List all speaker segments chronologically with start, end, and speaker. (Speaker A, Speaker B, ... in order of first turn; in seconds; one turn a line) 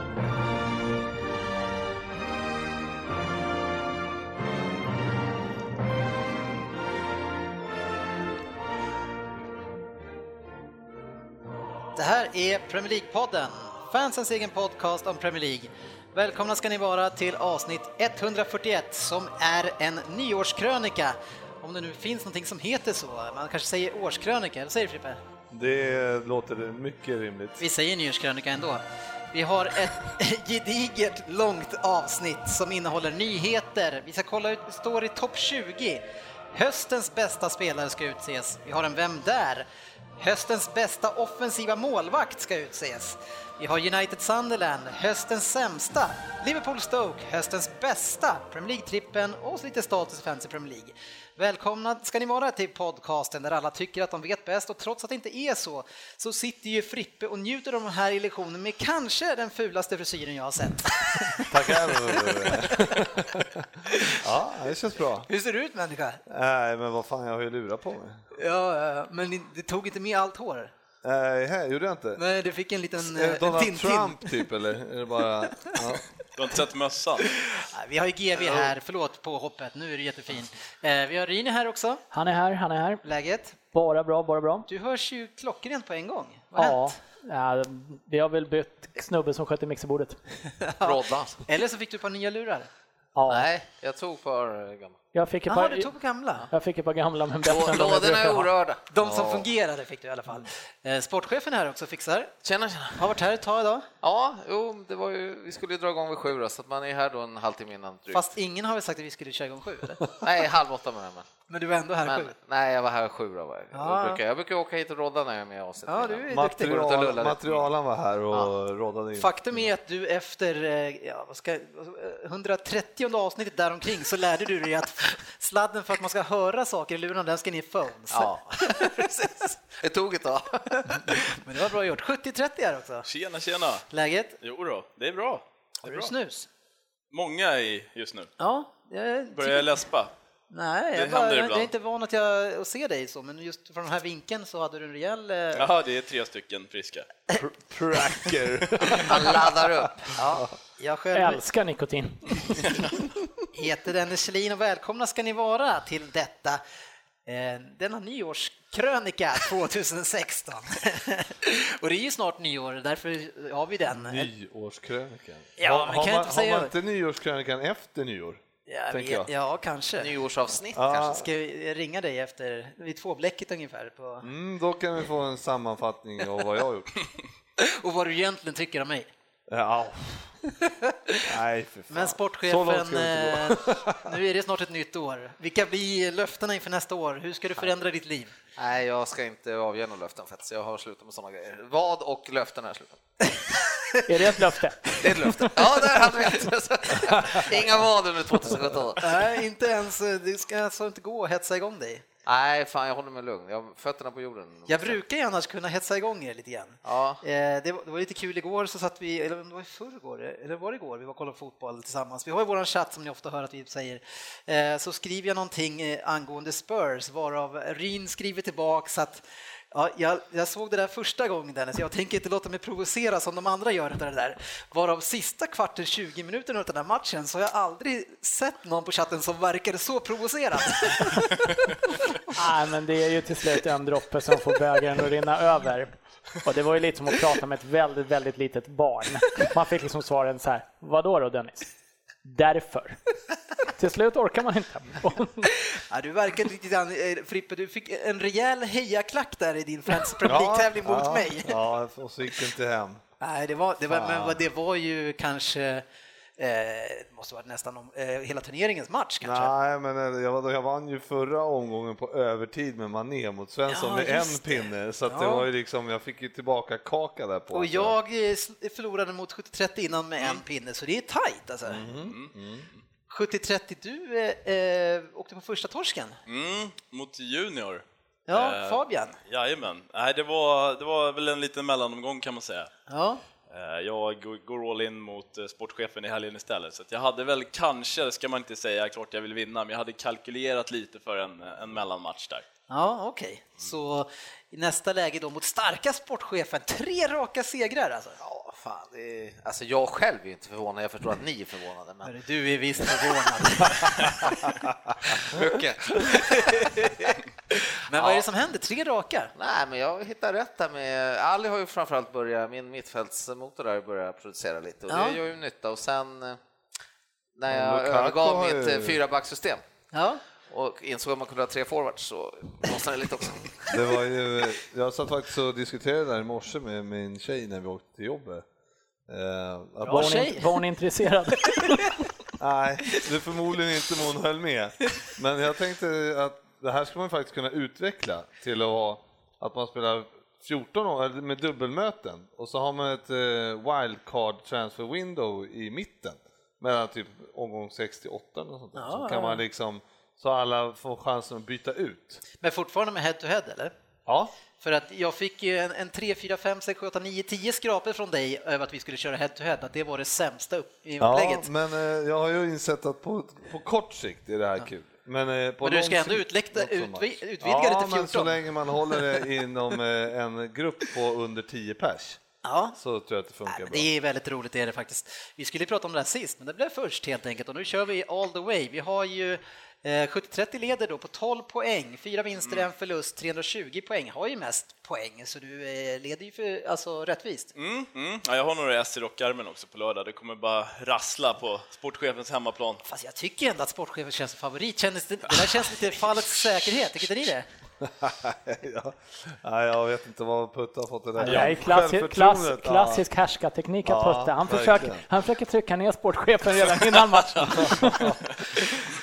Speaker A: 12.0-25.2
Speaker B: 25.5-27.6
Speaker A: 27.6-63.0
Speaker B: 61.4-65.3
Speaker A: 63.9-64.2
Speaker A: 65.3-66.2
Speaker B: 66.3-68.3
Speaker A: 68.4-70.7
Speaker B: 71.0-72.2
Speaker A: 72.2-74.5
Speaker B: 73.0-76.1
Speaker C: 76.4-77.3
Speaker A: 77.5-82.0
Speaker B: 78.4-78.7
Speaker D: 82.1-83.0
Speaker A: 83.0-83.6
Speaker D: 83.7-84.7
Speaker A: 84.7-87.0
Speaker D: 86.6-90.2
Speaker A: 90.6-92.7
Speaker E: 90.8-91.4
Speaker D: 93.2-93.5
Speaker E: 93.3-95.0
Speaker D: 95.1-95.9
Speaker A: 95.5-96.5
Speaker D: 96.5-98.5
Speaker E: 97.4-98.8
Speaker A: 98.9-102.3
Speaker B: 99.0-99.5
Speaker E: 102.4-103.1
Speaker A: 103.0-103.9
Speaker E: 104.0-108.3
Speaker A: 108.1-110.0
Speaker E: 110.2-111.3
Speaker A: 111.5-112.3
Speaker E: 112.0-117.5
Speaker A: 113.7-114.2
Speaker A: 115.9-116.8
Speaker B: 116.3-119.7
Speaker A: 119.2-129.1
Speaker E: 128.1-131.4
Speaker A: 130.8-133.1
Speaker C: 133.1-133.8
Speaker A: 133.9-134.4
Speaker C: 134.4-136.1
Speaker A: 135.8-136.5
Speaker C: 137.1-138.3
Speaker A: 138.4-139.8
Speaker C: 139.3-140.1
Speaker A: 140.5-145.7
Speaker C: 140.9-141.7
Speaker C: 145.5-147.1
Speaker B: 147.3-150.5
Speaker E: 149.0-150.1
Speaker A: 150.1-151.4
Speaker D: 151.1-152.4
Speaker C: 152.6-152.9
Speaker A: 153.5-156.6
Speaker A: 157.3-164.3
Speaker B: 163.9-169.3
Speaker A: 165.6-166.7
Speaker A: 168.7-170.1
Speaker E: 170.0-171.2
Speaker B: 170.8-171.3
Speaker A: 171.1-174.3
Speaker B: 174.2-176.9
Speaker A: 177.6-179.1
Speaker B: 179.5-180.3
Speaker A: 180.6-181.2
Speaker B: 181.2-184.1
Speaker A: 181.9-188.3
Speaker E: 188.6-193.0
Speaker A: 193.3-194.0
Speaker D: 194.1-195.6
Speaker E: 195.0-199.2
Speaker A: 199.0-202.1
Speaker E: 202.2-205.0
Speaker A: 204.7-232.1
Speaker E: 206.8-207.2
Speaker D: 232.3-241.7
Speaker D: 242.2-243.0
Speaker D: 243.8-245.5
Speaker A: 245.7-251.6
Speaker B: 250.2-253.0
Speaker A: 253.2-255.8
Speaker B: 253.8-254.4
Speaker A: 256.4-259.5
Speaker B: 259.2-268.0
Speaker A: 263.7-265.4
Speaker A: 267.5-271.9
Speaker B: 271.6-272.7
Speaker A: 273.1-276.2
Speaker C: 276.3-282.7
Speaker A: 278.3-279.2
Speaker A: 282.9-283.2
Speaker C: 283.5-292.4
Speaker A: 292.7-298.2
Speaker E: 298.2-302.1
Speaker A: 302.1-304.5
Speaker E: 302.8-304.3
Speaker E: 305.2-307.2
Speaker A: 306.0-309.3
Speaker E: 307.9-308.3
Speaker E: 309.4-316.4
Speaker A: 314.9-315.2
Speaker E: 317.4-319.6
Speaker B: 317.5-319.0
Speaker A: 319.9-320.2
Speaker E: 320.5-323.7
Speaker B: 323.7-328.4
Speaker B: 329.1-330.4
Speaker A: 329.8-330.6
Speaker D: 329.9-331.9
Speaker B: 332.4-352.2
Speaker A: 348.8-349.4
Speaker A: 352.4-353.7
Speaker B: 354.1-354.3
Speaker A: 354.6-361.5
Speaker B: 361.0-372.2
Speaker A: 365.6-369.2
Speaker A: 372.4-372.8
Speaker B: 372.8-373.9
Speaker A: 373.5-387.5
Speaker C: 387.6-392.8
Speaker A: 392.9-397.5
Speaker B: 397.8-403.1
Speaker D: 401.2-408.1
Speaker C: 401.2-401.6
Speaker B: 403.9-405.1
Speaker B: 407.5-408.9